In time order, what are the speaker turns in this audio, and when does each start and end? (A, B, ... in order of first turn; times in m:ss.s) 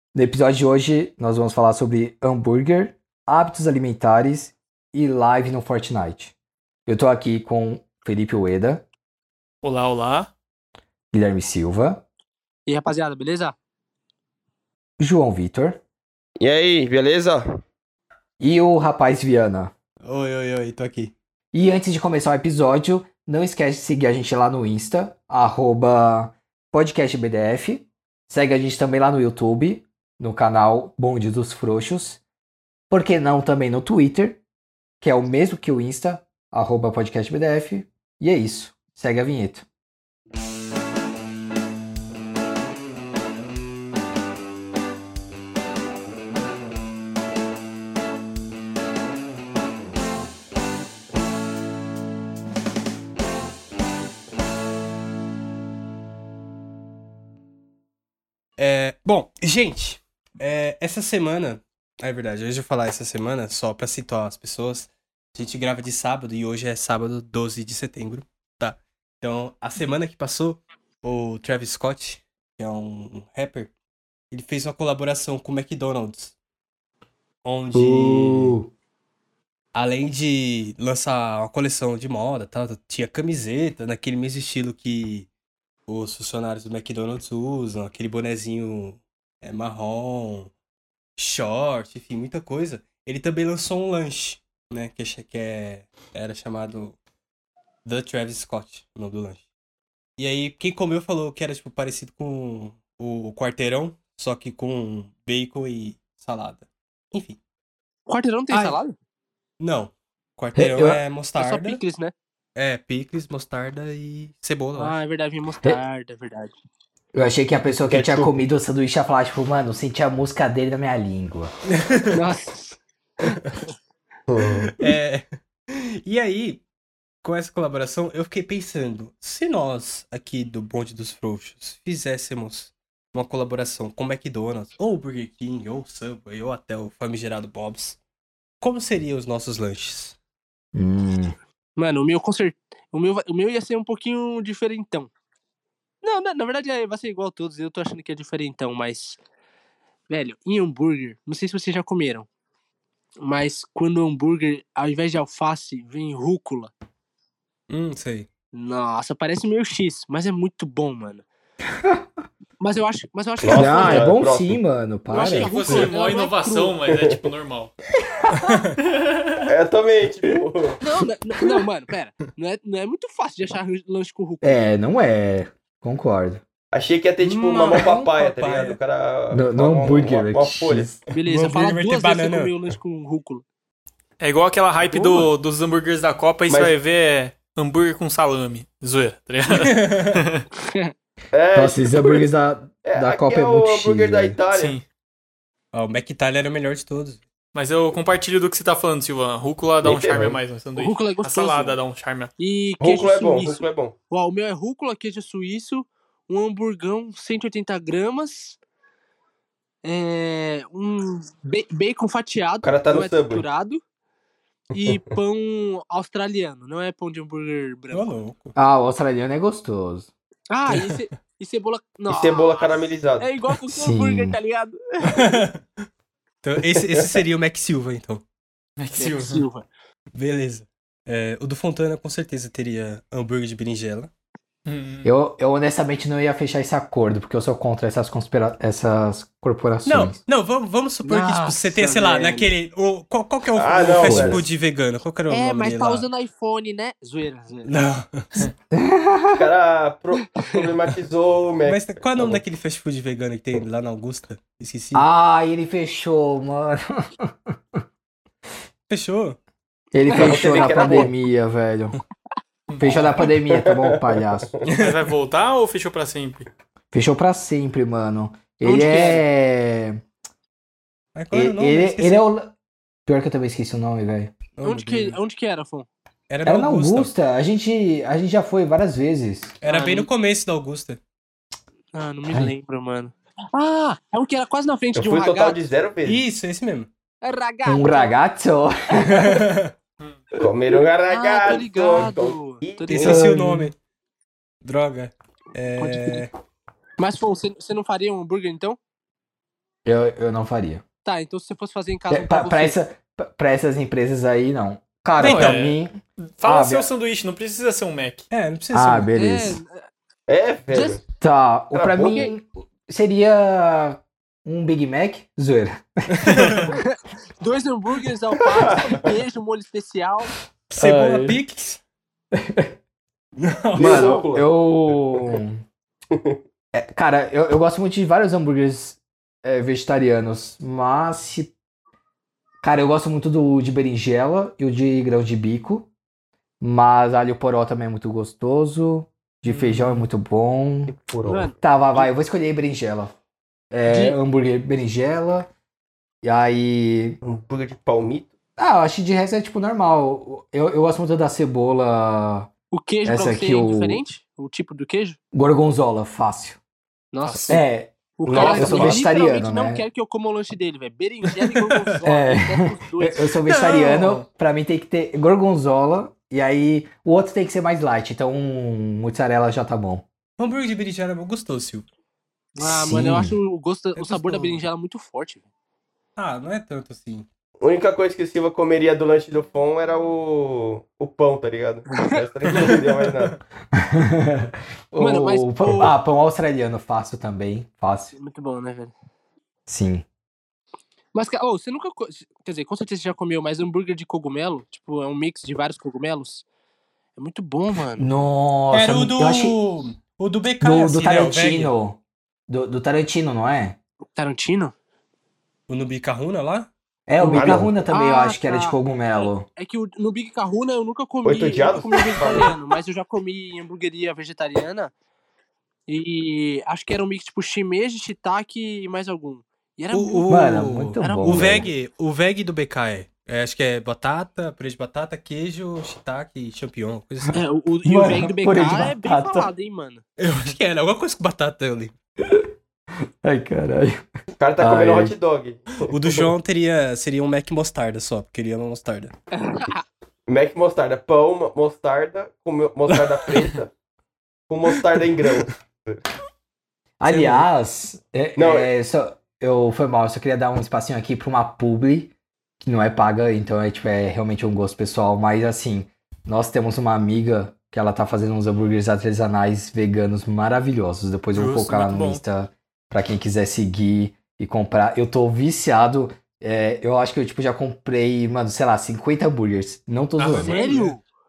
0:00.1-0:06.3 A
0:06.8-0:08.8 A
0:09.6-0:10.3 B
0:11.1-0:12.0 A
0:12.7-0:13.6 C
0:15.0-0:15.8 A
0:16.4-0:17.4 D
0:18.4-0:19.7 A
0:20.0-0:21.1 E
0:21.5-0:32.2 A
0:32.9-0:34.4 A
0:35.0-0:39.6 A
0:58.6-1:13.7 E
1:14.3-1:16.3 E
1:17.4-1:18.6 E
1:17.7-1:18.7 A
1:19.7-1:25.3 E
1:25.9-1:30.5 E
1:31.2-1:37.0 E
1:37.8-1:39.4 E
1:40.2-1:47.4 E
1:48.1-1:48.9 C
1:48.5-1:48.8 E
1:49.6-1:51.8 E
1:50.5-1:51.0 A
1:51.4-1:52.1 C
1:52.5-1:55.0 E
1:54.8-1:56.5 C
1:57.1-2:01.5 A
1:57.8-1:58.3 D
2:01.7-2:02.2 E
2:02.1-2:02.8 C
2:03.2-2:03.5 E
2:04.3-2:04.7 D
2:04.5-2:06.6 E
2:07.2-2:18.0 E
2:18.6-2:20.2 E
2:20.7-2:21.4 A
2:21.8-2:25.1 C
2:26.0-2:29.2 C
2:30.1-2:32.3 C
2:33.2-2:36.7 C
2:37.7-2:38.3 E
2:38.5-2:41.2 C
2:42.6-2:44.1 C
2:43.4-2:44.6 D
2:43.5-2:45.9 A
2:45.1-2:46.8 C
2:45.1-2:47.7 B
2:46.9-2:47.2 D
2:48.3-2:48.8 E
2:48.8-2:49.4 B
2:49.5-2:50.8 D
2:50.8-2:54.7 C
2:54.4-2:56.4 A
2:56.7-3:01.0 D
2:57.2-2:58.8 E
2:59.3-3:01.0 A
3:01.1-3:03.4 C
3:01.3-3:02.6 E
3:04.2-3:10.4 B
3:04.8-3:05.2 C
3:06.5-3:06.7 D
3:09.5-3:10.2 E
3:10.6-3:10.9 C
3:11.3-3:12.3 D
3:11.5-3:14.4 A
3:12.8-3:14.8 D
3:14.5-3:14.8 B
3:15.7-3:17.2 E
3:17.5-3:22.3 B
3:19.8-3:20.4 D
3:20.8-3:21.8 C
3:22.4-3:28.6 C
3:22.8-3:23.9 D
3:29.8-3:33.8 C
3:32.6-3:33.4 D
3:34.7-3:38.2 C
3:37.9-3:38.6 E
3:38.6-3:40.1 A
3:40.5-3:45.4 C
3:40.7-3:41.0 E
3:42.1-3:43.3 D
3:43.7-3:44.4 A
3:45.0-3:45.6 E
3:46.4-3:48.2 E
3:46.7-3:47.2 D
3:48.8-3:49.4 B
3:49.0-3:49.7 C
3:50.1-3:54.1 E
3:54.6-3:55.1 B
3:55.0-4:00.2 A
3:59.8-4:06.0 E
4:01.0-4:02.5 C
4:03.5-4:04.4 D
4:04.0-4:04.4 A
4:05.3-4:07.7 C
4:07.6-4:08.3 E
4:08.7-4:09.4 A
4:09.4-4:12.4 D
4:11.6-4:15.0 E
4:14.9-4:17.6 A
4:18.9-4:19.4 E
4:19.9-4:22.0 A
4:20.1-4:21.1 D
4:20.1-4:21.0 C
4:22.8-4:24.5 A
4:23.2-4:24.4 D
4:24.6-4:25.0 E
4:24.8-4:26.5 B
4:26.9-4:30.0 A
4:28.6-4:29.2 C
4:31.1-4:32.2 E
4:31.3-4:32.5 A
4:33.0-4:34.3 A
4:34.6-4:35.2 E
4:34.6-4:35.9 C
4:36.3-4:37.1 E
4:36.4-4:39.5 A
4:39.6-4:41.0 E
4:39.6-4:40.1 C
4:41.9-4:45.6 C
4:44.9-4:46.2 D
4:46.0-4:46.9 E
4:47.2-4:48.1 C
4:47.6-4:49.4 A
4:49.1-4:49.7 E
4:50.4-4:53.1 D
4:51.1-4:53.2 C
4:52.9-4:53.8 E
4:53.0-4:53.7 A
4:54.6-4:56.3 E
4:55.8-4:56.3 C
4:57.0-4:58.8 C
4:59.8-5:00.8 A
5:01.0-5:02.8 C
5:02.1-5:06.9 A
5:05.2-5:05.6 E
5:05.2-5:08.3 B
5:08.3-5:09.1 E
5:08.7-5:09.6 A
5:09.1-5:09.8 C
5:10.3-5:11.0 D
5:10.7-5:11.0 C
5:11.2-5:16.4 A
5:11.7-5:12.3 D
5:12.0-5:12.3 C
5:16.2-5:16.7 E
5:16.7-5:20.3 C
5:18.7-5:19.0 D
5:20.7-5:21.8 E
5:20.7-5:21.4 A
5:22.3-5:22.7 A
5:23.4-5:24.2 E
5:23.8-5:25.4 D
5:23.8-5:25.6 A
5:26.1-5:26.4 D
5:26.7-5:31.5 A
5:32.6-5:35.9 A
5:36.6-5:40.9 A
5:39.4-5:40.0 B
5:40.9-5:41.6 D
5:41.2-5:42.0 C
5:41.6-5:43.1 A
5:43.7-5:45.5 A
5:43.9-5:44.1 C
5:46.2-5:47.2 A
5:47.2-5:48.3 D
5:48.6-5:52.5 A
5:52.7-5:55.2 C
5:53.0-5:54.0 A
5:55.3-5:56.6 A
5:57.1-5:57.6 C
5:57.4-5:59.8 A
5:58.2-6:03.3 C
5:58.2-5:59.0 D
6:01.5-6:01.8 E
6:02.0-6:10.0 A
6:03.4-6:04.2 E
6:10.4-6:11.9 E
6:12.6-6:13.4 A
6:12.6-6:15.4 C
6:13.9-6:14.6 E
6:16.2-6:17.3 E
6:17.6-6:23.3 D
6:23.7-6:28.1 A
6:25.0-6:25.9 C
6:28.1-6:28.9 C
6:29.7-6:30.0 A
6:31.1-6:36.4 C
6:37.2-6:38.1 C
6:38.0-6:39.6 A
6:38.7-6:41.7 E
6:40.6-6:43.8 A
6:44.1-6:44.7 C
6:45.7-6:46.7 E
6:47.1-6:49.4 A
6:47.2-6:54.9 C
6:47.3-6:47.7 D
6:51.2-6:52.5 D
6:55.9-7:01.7 C
6:59.9-7:07.4 E
7:00.3-7:01.7 A
7:07.3-7:10.0 C
7:07.8-7:09.5 A
7:10.2-7:11.9 E
7:13.2-7:14.0 A
7:14.4-7:16.2 D
7:14.6-7:15.2 A
7:15.8-7:19.1 E
7:19.4-7:19.8 C
7:20.3-7:23.7 D
7:24.5-7:26.0 D
7:27.0-7:32.1 A
7:27.1-7:27.4 E
7:28.4-7:28.7 D
7:32.6-7:50.6 A
7:41.3-7:42.2 B
7:50.2-7:51.0 E
7:50.4-7:51.0 C